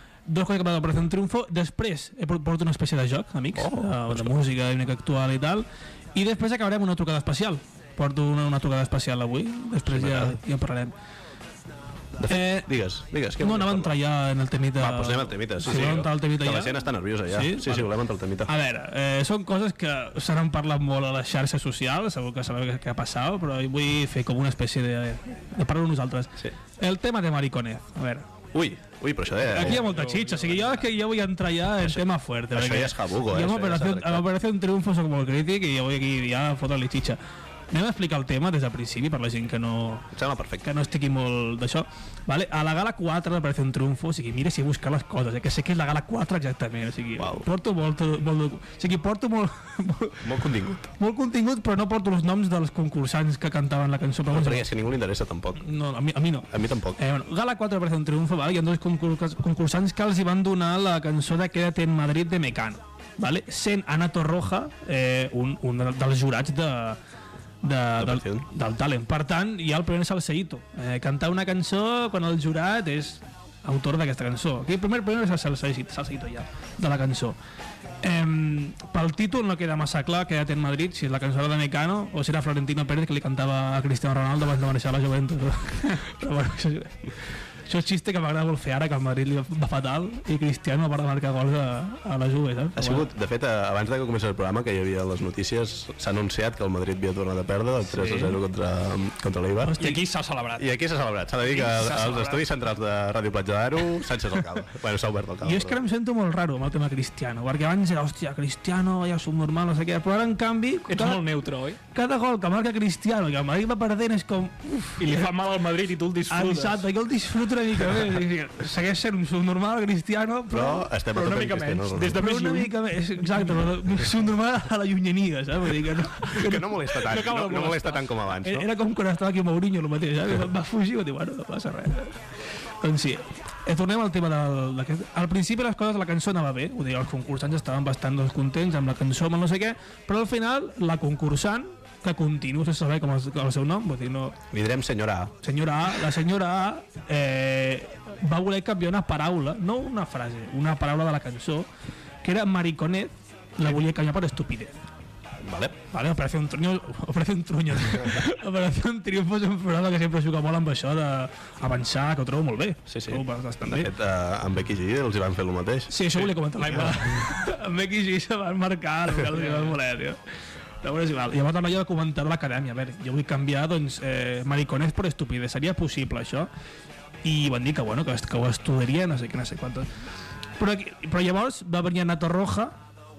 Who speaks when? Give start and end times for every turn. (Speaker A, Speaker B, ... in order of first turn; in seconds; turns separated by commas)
Speaker A: 0.2-10.9, Speaker B: 3.5-4.3, Speaker B: 9.8-10.4, Speaker B: 12.2-14.0, Speaker A: 12.3-12.7, Speaker A: 13.4-17.9, Speaker B: 14.8-18.5, Speaker A: 18.4-28.3, Speaker B: 28.5-29.8, Speaker A: 29.4-37.2, Speaker C: 29.5-30.9, Speaker B: 32.5-34.3, Speaker A: 37.7-40.1, Speaker B: 40.1-40.7, Speaker A: 40.6-50.3, Speaker B: 47.2-47.5, Speaker B: 50.2-50.9, Speaker A: 51.0-54.7, Speaker B: 54.3-55.7, Speaker A: 55.6-67.0, Speaker B: 56.5-57.0, Speaker A: 67.6-77.3, Speaker B: 68.0-68.5, Speaker A: 78.0-87.1, Speaker A: 87.7-93.1, Speaker B: 92.8-99.7, Speaker A: 97.9-98.4, Speaker A: 99.6-100.0, Speaker C: 99.8-100.7, Speaker B: 100.6-105.8, Speaker C: 101.5-102.4, Speaker A: 105.4-111.2, Speaker C: 110.9-111.8, Speaker A: 111.9-115.3, Speaker C: 115.0-116.9, Speaker A: 116.3-120.9, Speaker B: 120.5-122.2, Speaker C: 121.1-122.7, Speaker A: 122.1-126.7, Speaker B: 126.2-128.7, Speaker C: 127.0-128.1, Speaker A: 128.4-132.2, Speaker A: 132.8-144.3, Speaker B: 144.5-145.3, Speaker A: 145.4-151.7, Speaker A: 152.2-154.8, Speaker B: 155.4-155.8, Speaker A: 155.9-163.9, Speaker B: 162.9-166.1, Speaker A: 165.9-170.2, Speaker B: 166.7-167.0, Speaker C: 169.3-169.7, Speaker A: 170.8-176.5, Speaker A: 177.2-179.9, Speaker A: 180.6-182.7